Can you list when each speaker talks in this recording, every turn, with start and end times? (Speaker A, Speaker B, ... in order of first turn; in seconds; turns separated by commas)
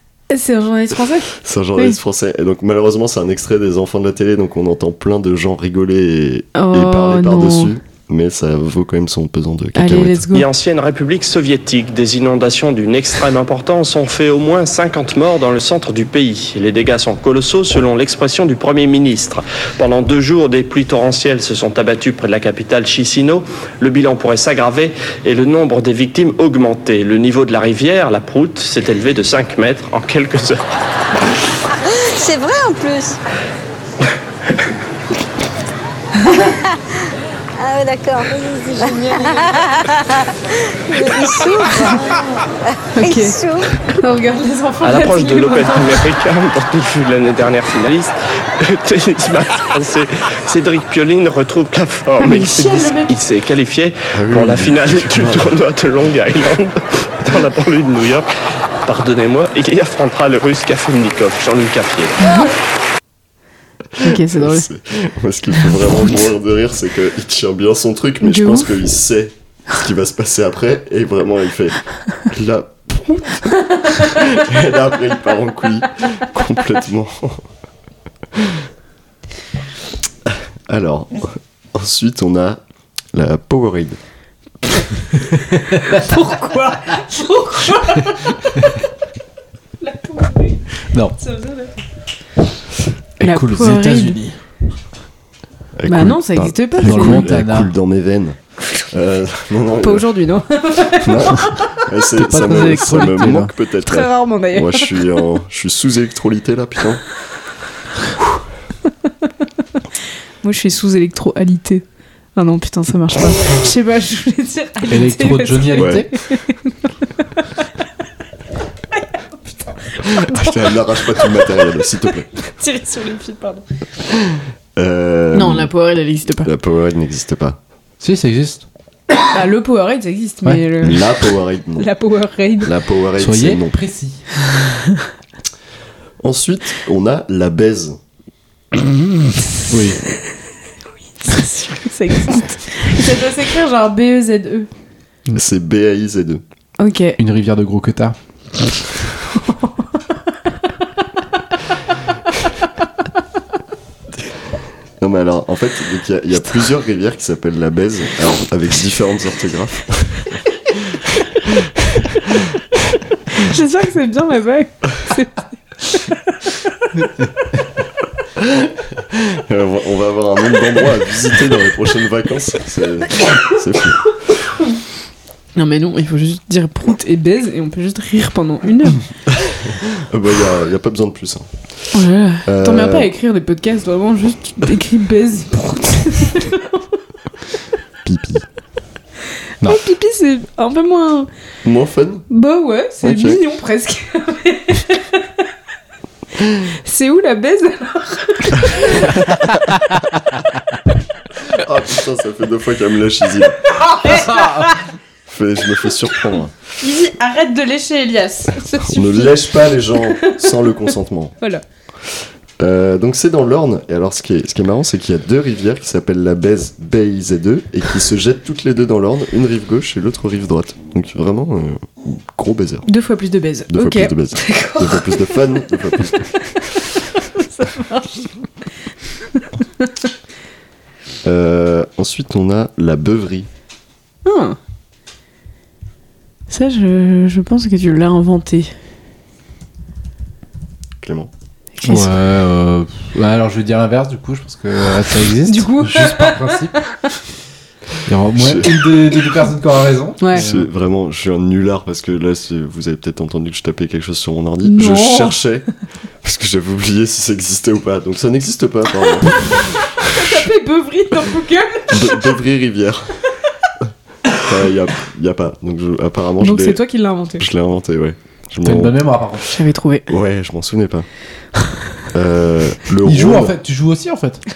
Speaker A: 0.3-2.0, Speaker B: 1.3-10.3, Speaker A: 6.5-7.7, Speaker A: 9.8-10.5, Speaker C: 10.3-30.7, Speaker D: 31.8-33.2, Speaker A: 36.2-36.5, Speaker D: 37.6-43.8, Speaker A: 43.0-46.0, Speaker C: 44.8-58.3, Speaker A: 52.2-53.2, Speaker B: 54.1-55.5, Speaker C: 58.8-62.2, Speaker A: 62.2-62.5, Speaker B: 64.0-77.5, Speaker A: 64.0-64.7, Speaker A: 68.2-68.8, Speaker B: 78.3-78.6, Speaker B: 80.3-82.6, Speaker B: 83.1-84.0, Speaker A: 85.5-88.7, Speaker A: 89.8-91.8, Speaker E: 90.9-91.2, Speaker A: 93.2-94.2, Speaker E: 93.2-94.4, Speaker B: 95.8-100.1, Speaker A: 95.9-97.3, Speaker E: 96.8-97.7, Speaker A: 99.8-101.7, Speaker B: 100.9-107.0, Speaker E: 102.2-103.5, Speaker A: 103.8-105.0, Speaker B: 108.1-108.4, Speaker A: 110.4-111.8, Speaker A: 112.3-117.7, Speaker E: 114.9-116.1, Speaker B: 115.7-116.1, Speaker A: 118.9-123.7, Speaker B: 120.0-122.3, Speaker B: 124.8-125.7, Speaker A: 125.3-126.5, Speaker B: 126.4-127.6, Speaker E: 128.0-128.6, Speaker A: 129.3-131.2, Speaker B: 130.8-131.9, Speaker A: 131.8-132.7, Speaker B: 132.6-133.8, Speaker E: 133.2-134.3, Speaker B: 136.2-138.0, Speaker E: 138.7-140.0, Speaker A: 141.2-144.7, Speaker B: 145.3-146.4, Speaker A: 146.8-147.2, Speaker E: 147.2-148.9, Speaker A: 149.3-149.9, Speaker B: 155.0-162.5, Speaker A: 163.3-166.6, Speaker B: 168.4-174.2, Speaker A: 175.6-179.1, Speaker B: 179.3-181.9, Speaker A: 181.9-187.0, Speaker B: 182.4-183.1, Speaker B: 188.0-188.5, Speaker A: 189.6-191.3, Speaker B: 191.6-192.3, Speaker A: 192.3-195.3, Speaker B: 193.0-193.4, Speaker A: 196.4-199.3, Speaker B: 201.4-203.8, Speaker A: 203.8-204.8, Speaker B: 205.3-206.5, Speaker A: 206.8-210.8, Speaker B: 208.8-211.3, Speaker B: 212.6-222.9, Speaker A: 222.9-226.6, Speaker B: 223.7-226.6, Speaker A: 227.2-228.4, Speaker A: 229.3-229.9, Speaker B: 231.2-233.5, Speaker A: 234.2-234.6, Speaker A: 236.5-238.7, Speaker B: 241.0-241.3, Speaker A: 241.8-242.1, Speaker E: 241.8-246.8, Speaker A: 245.4-247.0, Speaker E: 248.0-250.7, Speaker B: 248.4-248.7, Speaker A: 250.2-250.4, Speaker B: 250.3-255.7, Speaker A: 254.6-255.4, Speaker B: 256.2-260.4, Speaker A: 260.0-262.3, Speaker B: 261.9-263.2, Speaker B: 263.8-266.8, Speaker A: 266.4-267.5, Speaker B: 267.4-269.1, Speaker E: 268.6-269.6, Speaker A: 269.5-270.1, Speaker B: 270.1-271.1, Speaker B: 272.1-273.6, Speaker E: 273.0-274.4